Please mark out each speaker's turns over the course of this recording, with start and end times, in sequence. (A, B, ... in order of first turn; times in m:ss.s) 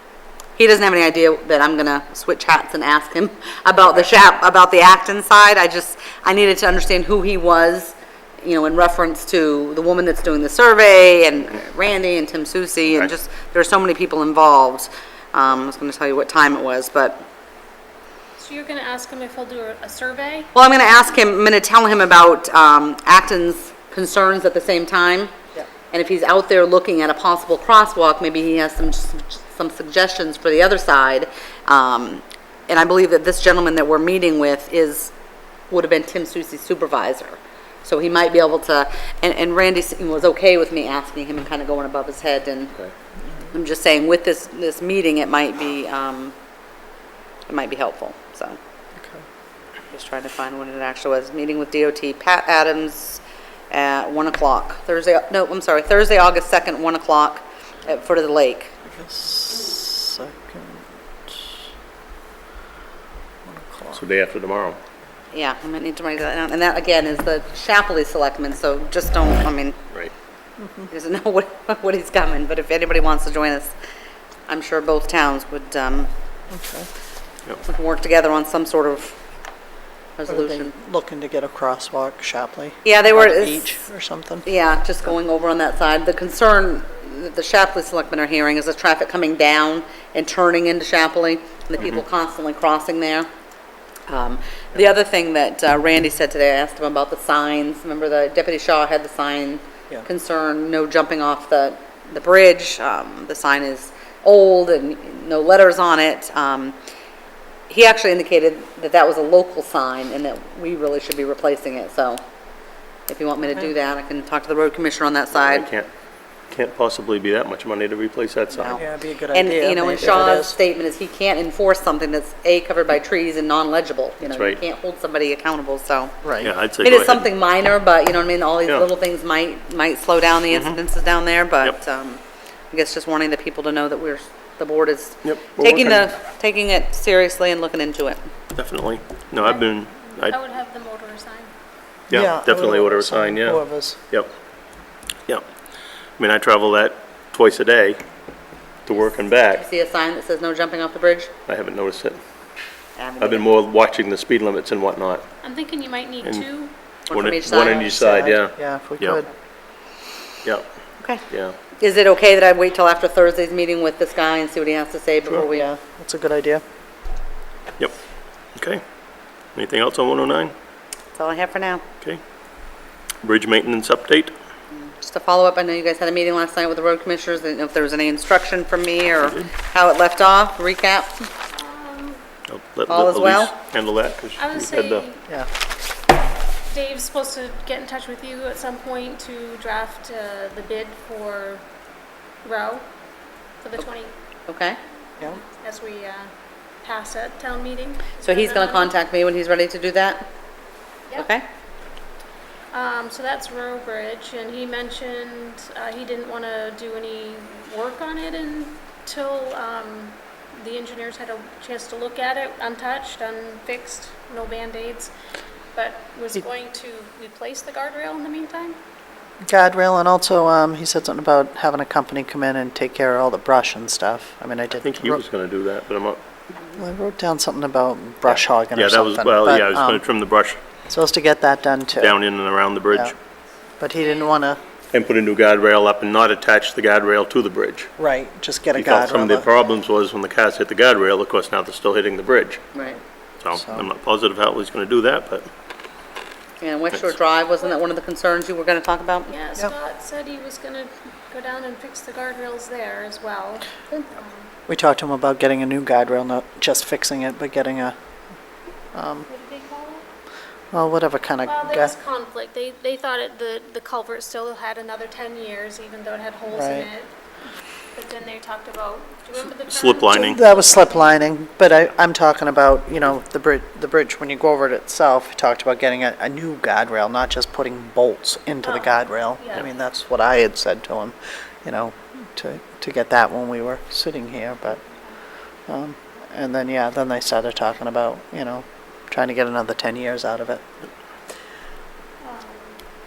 0:00.6-0:17.2 A
0:18.4-0:20.5 B
0:20.5-0:25.3 A
0:25.9-0:35.1 A
0:35.7-0:42.7 A
0:43.5-0:46.3 A
0:47.5-0:48.6 A
0:49.9-0:58.7 A
0:58.8-1:00.8 C
1:03.4-1:04.0 C
1:03.9-1:04.8 D
1:05.3-1:09.8 A
1:10.6-1:10.9 C
1:10.9-1:13.7 A
1:14.5-1:16.1 A
1:16.5-1:16.9 C
1:17.6-1:19.2 A
1:20.2-1:20.7 A
1:20.3-1:24.4 C
1:22.8-1:23.7 A
1:24.4-1:33.3 A
1:34.1-1:46.8 A
1:47.7-1:52.2 A
1:53.1-1:55.7 A
1:55.3-1:55.9 D
1:56.5-1:58.8 D
1:58.5-2:06.2 A
1:58.6-2:00.6 C
2:04.2-2:04.6 D
2:06.2-2:06.5 C
2:06.4-2:07.3 D
2:06.8-2:18.2 A
2:10.5-2:10.8 D
2:15.2-2:16.1 D
2:18.5-2:20.4 D
2:19.4-2:21.5 B
2:22.1-2:24.3 D
2:22.1-2:24.0 C
2:26.2-2:28.0 D
2:28.8-2:29.6 D
2:29.3-2:31.3 A
2:31.5-2:32.2 D
2:33.0-2:33.5 A
2:33.2-2:35.2 D
2:35.4-2:36.7 B
2:36.2-2:36.5 D
2:37.1-2:37.9 A
2:37.1-2:39.2 D
2:37.7-2:39.3 C
2:41.0-2:41.2 A
2:41.3-2:41.6 D
2:41.8-2:45.7 A
2:45.4-2:46.6 C
2:48.5-2:48.8 D
2:49.5-2:50.5 D
2:51.1-2:51.8 A
2:53.2-2:54.3 D
2:54.7-3:01.2 A
3:01.5-3:02.2 B
3:02.5-3:05.0 D
3:02.9-3:03.5 A
3:04.4-3:05.3 B
3:06.7-3:11.6 B
3:12.4-3:12.8 B
3:13.6-3:14.1 B
3:14.5-3:14.8 A
3:15.2-3:16.3 B
3:16.8-3:18.9 B
3:18.2-3:20.3 A
3:21.2-3:21.4 A
3:22.7-3:35.1 B
3:35.7-3:38.8 B
3:39.4-3:45.2 C
3:44.8-3:46.2 D
3:46.8-3:50.0 C
3:48.3-3:50.6 D
3:50.9-3:52.2 C
3:52.0-3:53.2 D
3:53.8-3:54.6 C
3:54.9-3:57.9 D
3:58.0-3:59.5 C
3:58.8-4:02.6 D
4:03.4-4:05.5 D
4:03.6-4:03.8 C
4:06.6-4:09.4 A
4:09.3-4:14.5 B
4:14.7-4:17.9 C
4:18.9-4:19.3 C
4:19.3-4:20.1 B
4:20.7-4:21.9 C
4:21.4-4:27.1 B
4:26.5-4:26.9 C
4:27.9-4:31.1 B
4:29.4-4:30.4 D
4:30.1-4:44.8 C
4:38.6-4:39.6 B
4:45.7-4:50.7 C
4:52.2-4:52.8 B